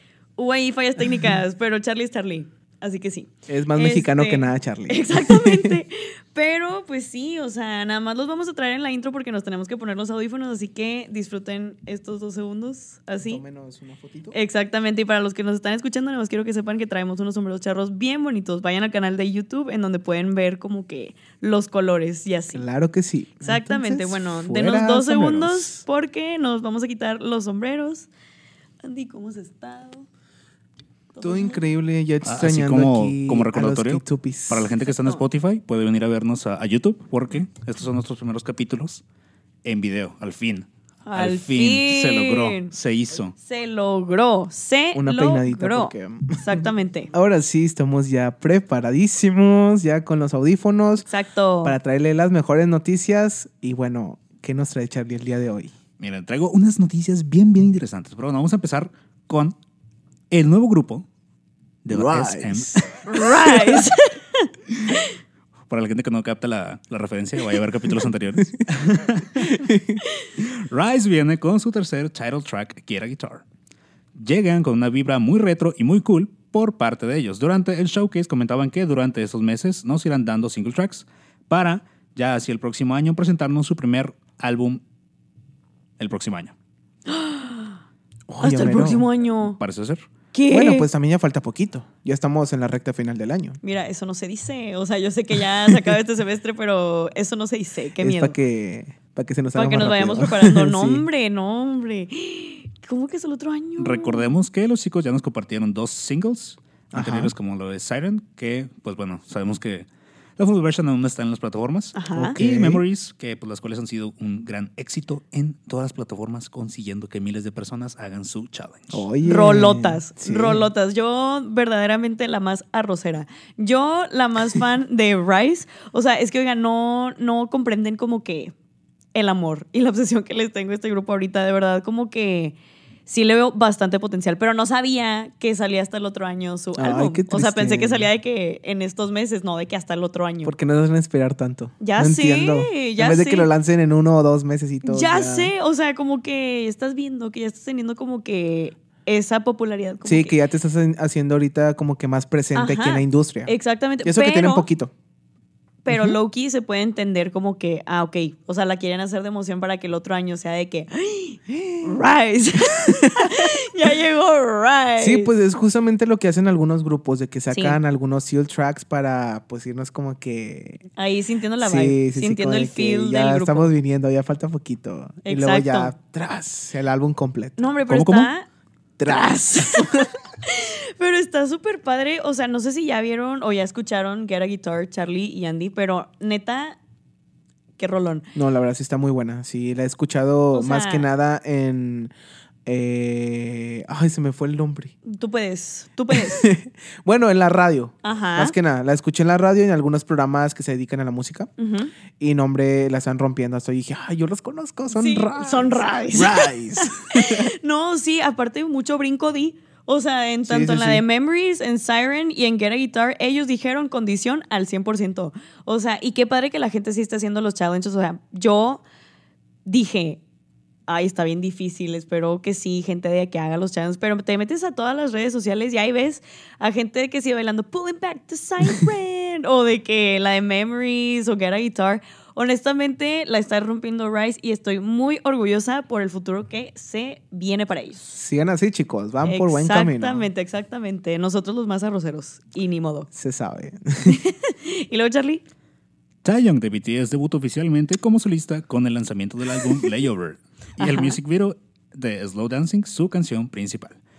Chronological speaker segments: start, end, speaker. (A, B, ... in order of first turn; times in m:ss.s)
0:00.4-0:13.4 A
0:03.5-0:05.8 B
0:13.2-0:14.4 B
0:14.3-0:22.6 A
0:22.5-0:25.8 B
0:23.4-0:28.1 A
0:28.8-0:30.0 A
0:31.1-0:31.6 A
0:31.2-0:34.7 B
0:32.2-0:39.0 C
0:39.6-0:43.3 C
0:41.0-0:42.7 A
0:43.4-0:47.1 A
0:44.9-0:51.1 B
0:51.0-0:51.8 A
0:51.6-0:55.7 B
0:56.0-0:59.6 C
1:00.3-1:01.0 C
1:01.8-1:03.5 C
1:01.9-1:02.8 B
1:03.1-1:05.1 A
1:05.7-1:09.6 C
1:09.4-1:10.0 B
1:10.4-1:13.4 C
1:14.1-1:24.8 C
1:26.0-1:26.5 C
1:27.1-1:27.8 A
1:28.3-1:29.1 B
1:28.4-1:29.6 A
1:29.4-1:30.0 C
1:30.3-1:30.9 A
1:30.5-1:33.6 B
1:33.6-1:38.4 A
1:35.5-1:35.9 B
1:38.0-1:41.0 B
1:39.5-1:44.3 A
1:43.8-1:59.0 C
1:46.9-1:47.3 B
1:51.9-1:52.4 A
1:52.1-1:52.8 B
1:58.9-2:00.7 B
1:59.2-2:08.5 A
2:09.1-2:20.5 A
2:16.8-2:18.1 B
2:20.4-2:25.5 B
2:21.8-2:23.5 A
2:24.8-2:30.4 A
2:30.0-2:33.5 B
2:32.5-2:34.7 A
2:34.0-2:34.9 B
2:35.8-2:45.3 A
2:35.9-2:36.2 B
2:41.5-2:42.0 B
2:43.2-2:43.5 B
2:45.0-2:50.8 B
2:47.5-2:47.8 A
2:51.0-2:53.7 A
2:51.6-2:57.7 B
2:55.2-2:55.9 A
2:57.6-2:58.4 A
2:57.9-2:58.3 C
2:59.0-3:00.1 B
2:59.0-3:06.8 A
3:07.8-3:08.2 A
3:08.4-3:12.1 B
3:10.5-3:11.1 A
3:12.6-3:15.0 B
3:15.0-3:16.5 A
3:16.1-3:21.5 B
3:18.0-3:18.5 A
3:21.6-3:21.9 A
3:22.2-3:27.5 B
3:24.9-3:38.8 A
3:30.4-3:31.0 B
3:39.6-3:40.2 A
3:40.9-3:58.0 A
3:58.1-4:00.3 B
3:59.2-4:03.1 A
4:03.1-4:04.2 B
4:04.1-4:05.4 A
4:06.2-4:14.0 C
4:10.8-4:11.2 A